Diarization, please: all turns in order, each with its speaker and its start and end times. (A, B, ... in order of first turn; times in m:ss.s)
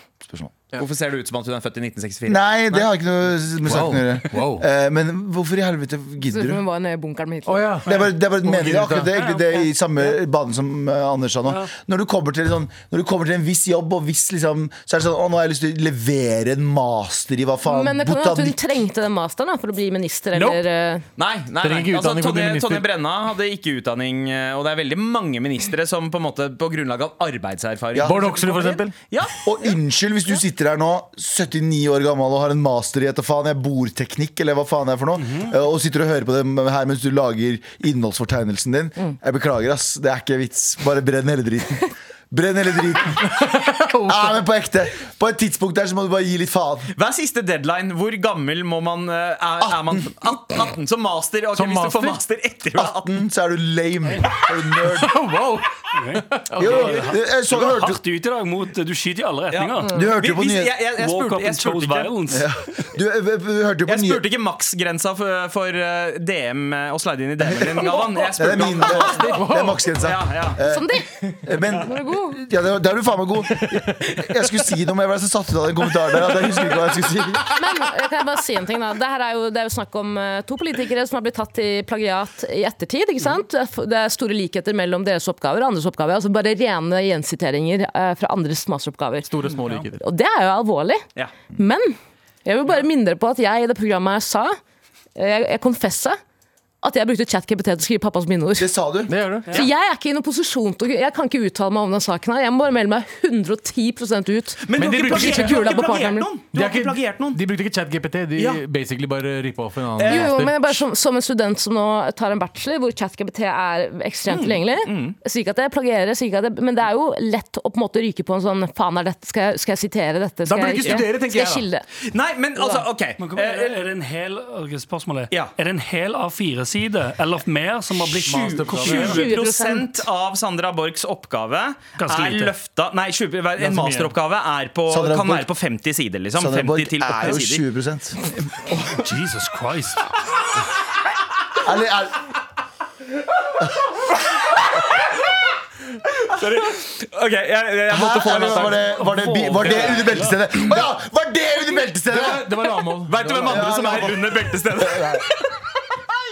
0:00.2-0:00.6 A
0:00.8-0:02.8 B
0:02.2-0:06.6 A
0:03.6-0:04.6 C
0:06.2-0:07.7 D
0:07.5-0:09.1 C
0:07.8-0:18.6 A
0:09.1-0:09.6 E
0:17.6-0:21.0 D
0:20.3-0:20.6 C
0:21.2-0:29.5 B
0:21.6-0:22.8 C
0:27.9-0:28.2 A
0:28.0-0:29.0 C
0:29.4-0:43.3 A
0:35.2-0:35.5 E
0:43.2-0:44.3 C
0:44.0-0:46.9 A
0:46.9-0:53.1 B
0:49.6-0:50.3 A
0:51.5-0:52.2 C
0:52.8-0:55.1 A
0:54.9-0:57.1 C
0:55.9-0:59.9 E
0:56.6-0:58.0 A
0:59.5-1:02.2 B
0:59.9-1:00.8 A
1:01.0-1:02.5 E
1:02.3-1:04.2 A
1:03.8-1:10.6 B
1:07.8-1:17.6 A
1:09.2-1:09.8 C
1:10.7-1:11.1 D
1:11.7-1:12.4 D
1:17.5-1:29.3 D
1:29.2-1:30.0 C
1:29.9-1:34.6 D
1:35.2-1:36.2 D
1:36.8-1:38.7 D
1:38.6-1:39.1 A
1:39.1-1:39.5 C
1:39.5-1:46.3 D
1:44.6-1:47.4 B
1:44.8-1:45.8 C
1:46.5-1:50.8 C
1:48.4-1:48.6 B
1:50.0-1:50.3 B
1:50.0-2:01.8 D
1:54.3-1:55.2 B
2:00.4-2:01.6 C
2:02.1-2:03.8 B
2:03.2-2:09.3 E
2:08.2-2:17.6 B
2:08.2-2:09.3 C
2:08.9-2:10.0 D
2:12.0-2:12.5 E
2:13.6-2:14.1 C
2:14.9-2:15.5 A
2:16.4-2:18.2 A
2:18.8-2:20.0 E
2:21.6-2:22.2 A
2:26.2-2:28.8 B
2:27.9-2:32.6 A
2:28.6-2:30.8 E
2:32.1-2:33.8 C
2:33.0-2:35.5 B
2:33.4-2:35.3 A